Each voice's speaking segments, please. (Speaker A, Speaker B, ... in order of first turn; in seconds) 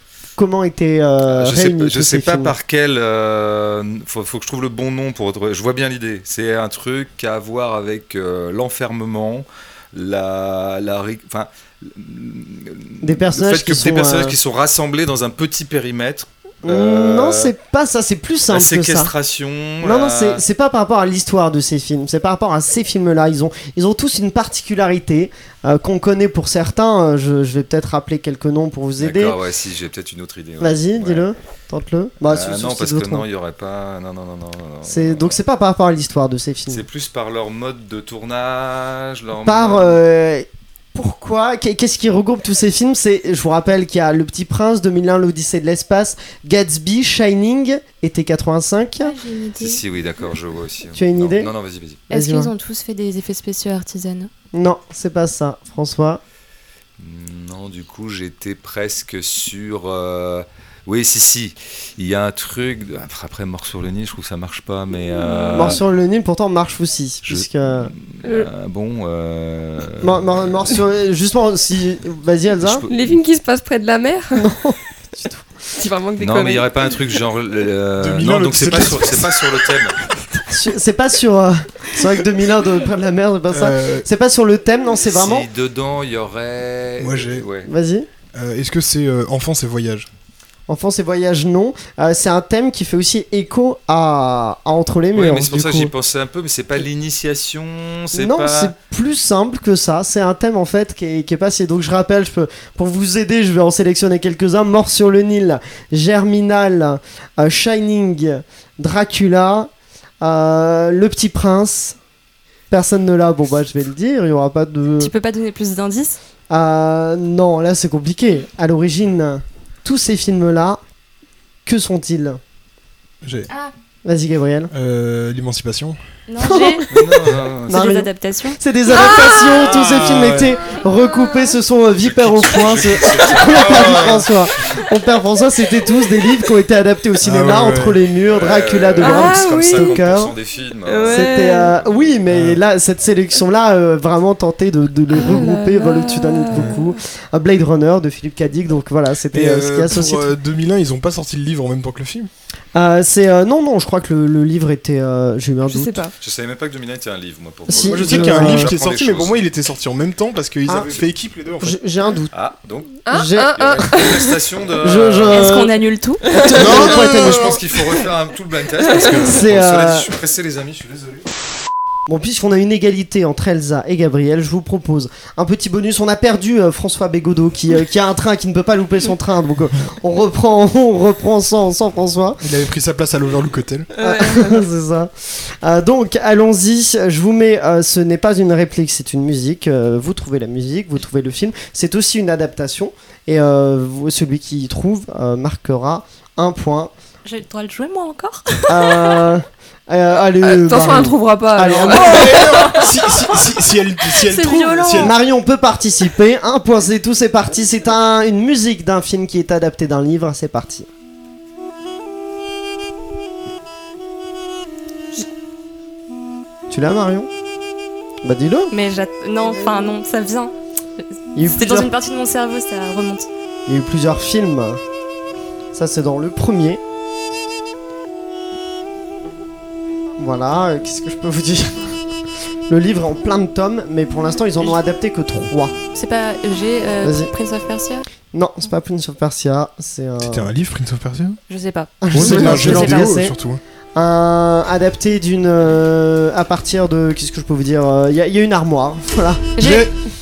Speaker A: 0.4-2.5, 13.0-14.4, 16.6-19.1, 19.8-29.4, 30.6-33.3, 34.8-36.9, 39.5-49.2, 50.9-51.5, 52.1-52.5, 54.5-56.2, 65.5-67.9, 70.0-72.8, 74.3-75.5, 80.5-85.5, 87.7-88.1, 90.7-95.9, 98.1-109.7, 110.2-112.0, 112.7-115.1, 116.5-120.8, 121.7-122.4, 124.0-124.7, 126.4-127.0, 127.7-140.3, 141.1-150.3, 152.8-156.1, 157.7-158.7, 160.7-161.0, 161.6-162.3, 163.1-163.7, 164.8-165.7, 166.2-167.6, 168.9-170.1, 172.1-182.4, 184.0-196.9, 198.7-202.6, 205.0-210.9, 216.7-217.3, 218.2-218.7, 221.3-221.9, 223.7-224.8, 225.7-226.8, 230.2-232.0, 232.7-235.7, 237.0-237.3, 238.3-240.5, 242.0-243.4, 243.9-249.7
Speaker B: 1.3-17.5, 18.5-20.4, 29.0-31.2, 32.3-35.4, 36.7-40.0, 49.6-52.0, 57.0-65.8, 67.3-70.7, 72.6-73.2, 76.2-80.0, 85.0-87.7, 95.2-98.8, 126.9-127.8, 132.0-134.3, 138.3-141.3, 156.2-159.4, 162.3-163.0, 163.5-165.6, 166.6-171.2
Speaker C: 49.0-49.8, 52.1-54.3, 115.0-116.2, 126.3-126.9, 127.7-128.6, 165.3-166.3, 197.2-198.8, 204.3-205.1, 218.7-220.5, 221.4-223.3, 235.9-238.1, 241.5-243.0, 249.6-249.9
Speaker D: 68.2-68.5, 72.9-74.5, 75.8-76.9, 139.0-140.0, 140.8-141.8, 145.1-146.9, 155.7-156.1, 163.1-164.4, 184.0-184.7, 200.4-202.9, 219.5-219.9
Speaker E: 78.0-79.4, 83.5-84.1, 87.0-87.5, 88.3-90.1, 123.2-123.5, 124.7-126.0, 129.7-130.5, 137.2-138.0, 142.3-142.6, 149.3-152.3, 157.8-161.8, 166.7-167.6, 182.4-183.9, 201.9-205.2, 240.2-241.4, 242.1-243.6, 249.6-249.9